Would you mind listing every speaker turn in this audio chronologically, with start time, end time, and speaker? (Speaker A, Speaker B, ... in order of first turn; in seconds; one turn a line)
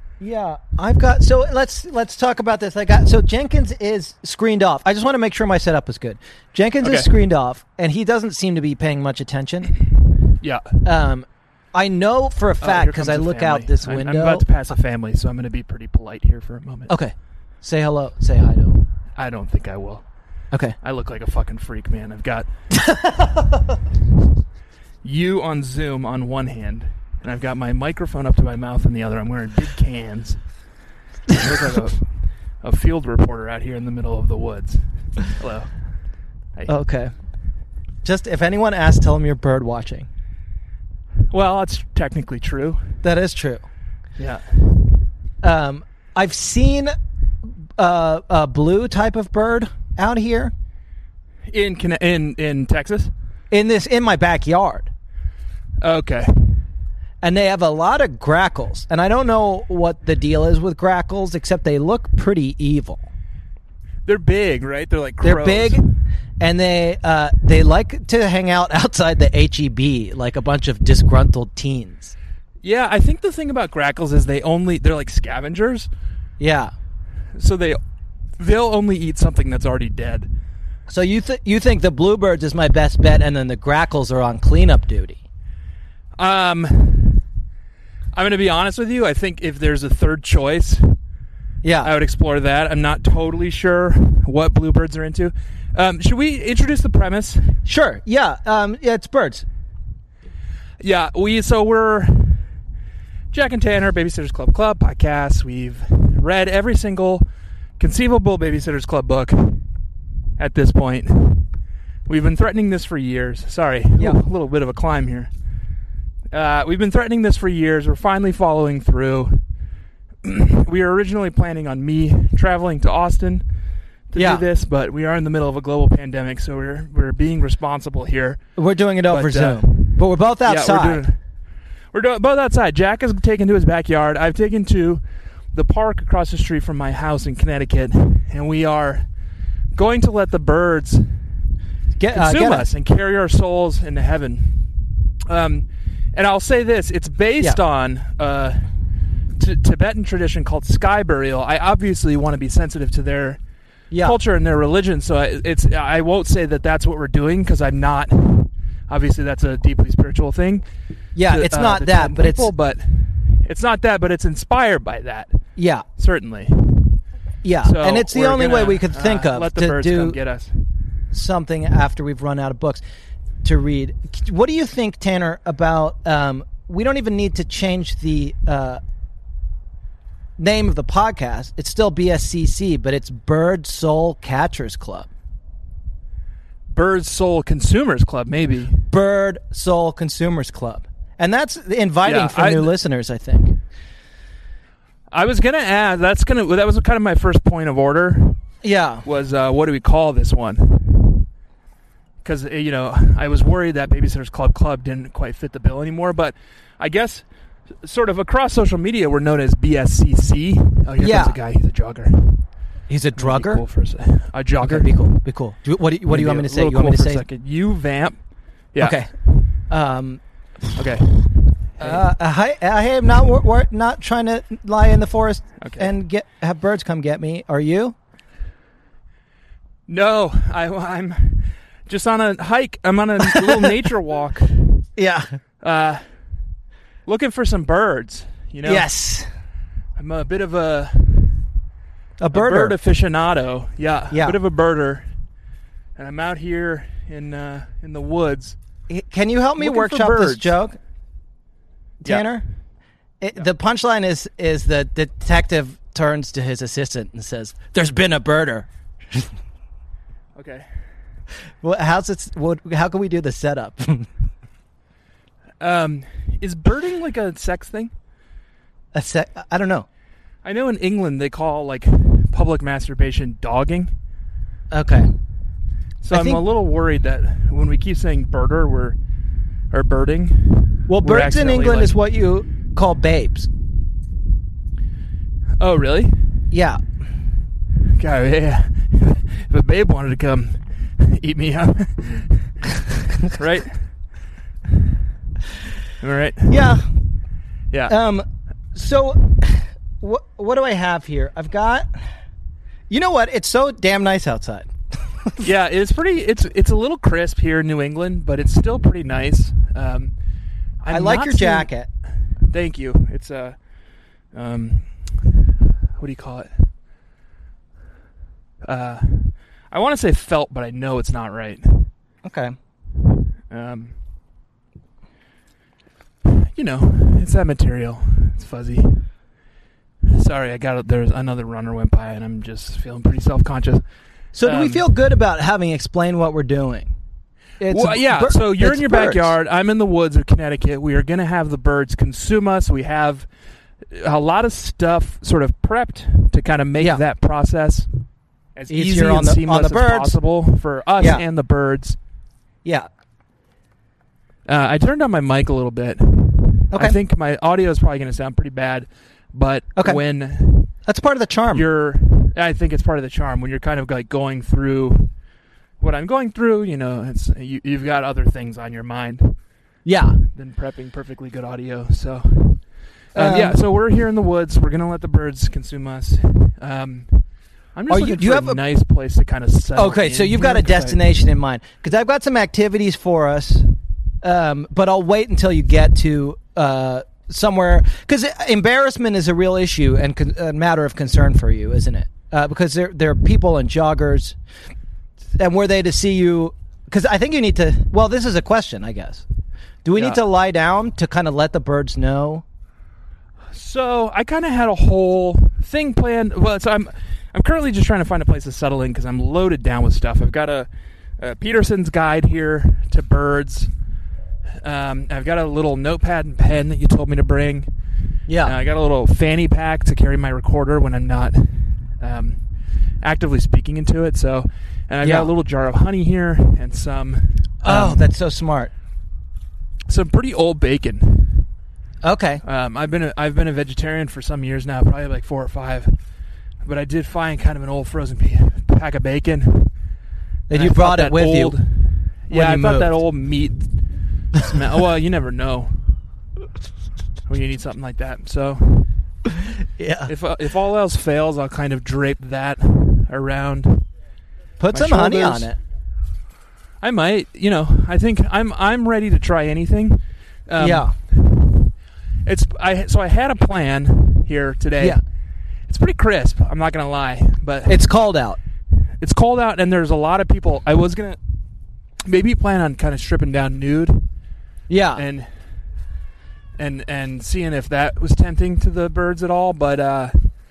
Speaker A: 0.2-9.7
Speaker B: 6.8-7.1
Speaker B: 10.4-10.8
Speaker A: 10.8-14.5
Speaker B: 12.6-17.0
Speaker A: 16.9-18.8
Speaker B: 19.2-20.0
Speaker B: 20.8-22.5
Speaker A: 22.7-23.6
Speaker B: 25.0-30.4
Speaker B: 31.3-32.1
Speaker B: 32.6-35.7
Speaker A: 36.7-37.1
Speaker A: 38.0-40.1
Speaker B: 41.3-42.9
Speaker A: 43.0-43.6
Speaker B: 44.2-44.6
Speaker A: 45.4-46.9
Speaker A: 47.8-50.5
Speaker B: 51.5-53.1
Speaker A: 53.5-54.9
Speaker B: 55.8-56.6
Speaker A: 57.2-63.0
Speaker B: 64.1-65.8
Speaker A: 65.2-65.8
Speaker A: 66.4-72.2
Speaker B: 72.6-75.9
Speaker A: 76.4-76.7
Speaker B: 77.4-77.8
Speaker B: 78.4-80.3
Speaker A: 80.9-85.2
Speaker B: 86.2-87.2
Speaker B: 88.2-91.0
Speaker A: 91.6-92.0
Speaker B: 91.8-97.6
Speaker A: 97.7-99.5
Speaker B: 100.8-102.4
Speaker B: 103.3-107.3
Speaker B: 107.8-109.7
Speaker B: 110.4-111.5
Speaker B: 112.1-115.3
Speaker B: 116.3-119.4
Speaker B: 120.2-123.4
Speaker B: 124.1-128.4
Speaker A: 124.2-124.5
Speaker A: 128.6-131.0
Speaker B: 129.1-131.2
Speaker B: 131.9-139.1
Speaker B: 139.7-141.2
Speaker A: 142.0-142.7
Speaker B: 142.1-144.7
Speaker B: 145.3-148.7
Speaker B: 149.4-153.4
Speaker A: 153.9-154.2
Speaker B: 154.0-160.7
Speaker A: 161.2-162.5
Speaker B: 161.3-165.4
Speaker A: 165.6-165.8
Speaker B: 166.0-167.0
Speaker A: 167.4-170.2
Speaker B: 167.6-170.6
Speaker A: 171.1-172.8
Speaker A: 173.4-178.8
Speaker A: 180.4-185.1
Speaker B: 186.7-188.9
Speaker A: 188.9-193.6
Speaker B: 192.0-192.8
Speaker B: 195.1-198.4
Speaker A: 198.6-199.1
Speaker B: 199.0-201.2
Speaker B: 202.2-207.2
Speaker B: 207.8-212.4
Speaker A: 211.0-211.4
Speaker A: 212.9-213.6
Speaker B: 213.2-215.1
Speaker A: 214.6-217.2
Speaker B: 216.1-218.2
Speaker B: 218.7-219.5
Speaker A: 218.8-219.1
Speaker A: 219.7-220.2
Speaker B: 220.8-222.1
Speaker A: 221.8-227.9
Speaker B: 225.6-225.9
Speaker B: 229.9-234.7
Speaker A: 233.3-233.7
Speaker A: 235.0-235.3
Speaker B: 235.6-236.1
Speaker B: 237.1-238.9
Speaker A: 238.6-239.3
Speaker B: 240.0-241.4
Speaker A: 242.2-242.8
Speaker B: 242.3-245.1
Speaker A: 244.1-244.4
Speaker B: 246.0-248.6
Speaker A: 248.9-250.8
Speaker B: 249.6-250.6
Speaker A: 252.0-252.4
Speaker A: 253.2-259.3
Speaker B: 260.4-260.6
Speaker A: 261.6-264.1
Speaker B: 265.6-267.9
Speaker A: 268.9-269.9
Speaker B: 270.4-273.9
Speaker A: 274.7-275.1
Speaker B: 276.0-279.0
Speaker A: 276.1-276.4
Speaker B: 279.7-281.9
Speaker A: 280.9-283.5
Speaker B: 285.6-286.4
Speaker A: 286.5-286.8
Speaker B: 287.9-292.6
Speaker B: 293.2-293.9
Speaker B: 296.0-296.6
Speaker A: 296.5-296.9
Speaker B: 297.7-298.0
Speaker A: 297.9-302.0
Speaker A: 302.9-305.4
Speaker B: 305.4-310.1
Speaker B: 310.8-311.7
Speaker A: 310.9-311.9
Speaker B: 312.5-313.6
Speaker B: 314.3-315.5
Speaker B: 316.0-316.7
Speaker B: 318.6-321.9
Speaker A: 322.2-322.6
Speaker B: 323.5-324.0
Speaker B: 326.2-329.1
Speaker B: 330.1-333.9
Speaker A: 334.3-336.9
Speaker B: 334.4-334.9
Speaker A: 337.6-339.4
Speaker B: 337.7-343.3
Speaker B: 343.9-347.9
Speaker B: 348.6-352.0
Speaker A: 348.7-350.2
Speaker A: 351.0-351.2
Speaker B: 354.5-360.7
Speaker A: 356.7-357.0
Speaker A: 359.8-360.0
Speaker A: 360.9-361.7
Speaker B: 361.5-365.1
Speaker B: 365.8-369.4
Speaker A: 369.9-370.2
Speaker B: 370.3-377.2
Speaker A: 373.1-373.6
Speaker B: 377.8-381.0
Speaker A: 377.9-378.6
Speaker A: 379.8-394.4
Speaker A: 395.4-399.2
Speaker A: 399.9-402.4
Speaker B: 399.9-400.2
Speaker B: 403.5-413.7
Speaker B: 414.6-417.7
Speaker A: 418.3-418.6
Speaker B: 418.4-422.4
Speaker B: 423.0-428.1
Speaker A: 425.0-425.3
Speaker A: 427.6-428.7
Speaker B: 429.9-431.5
Speaker A: 432.0-432.4
Speaker B: 432.4-436.0
Speaker B: 436.6-439.7
Speaker A: 440.5-441.6
Speaker B: 440.5-443.8
Speaker A: 442.3-443.0
Speaker B: 444.3-445.9
Speaker B: 447.3-448.9
Speaker A: 449.8-450.1
Speaker B: 450.1-453.9
Speaker A: 454.6-455.6
Speaker B: 454.7-455.5
Speaker B: 456.8-461.7
Speaker A: 460.6-460.9
Speaker B: 462.2-465.0
Speaker B: 465.7-467.9
Speaker A: 467.7-468.4
Speaker B: 469.0-471.2
Speaker B: 472.1-474.1
Speaker A: 474.7-475.1
Speaker B: 474.9-475.3
Speaker B: 476.6-480.3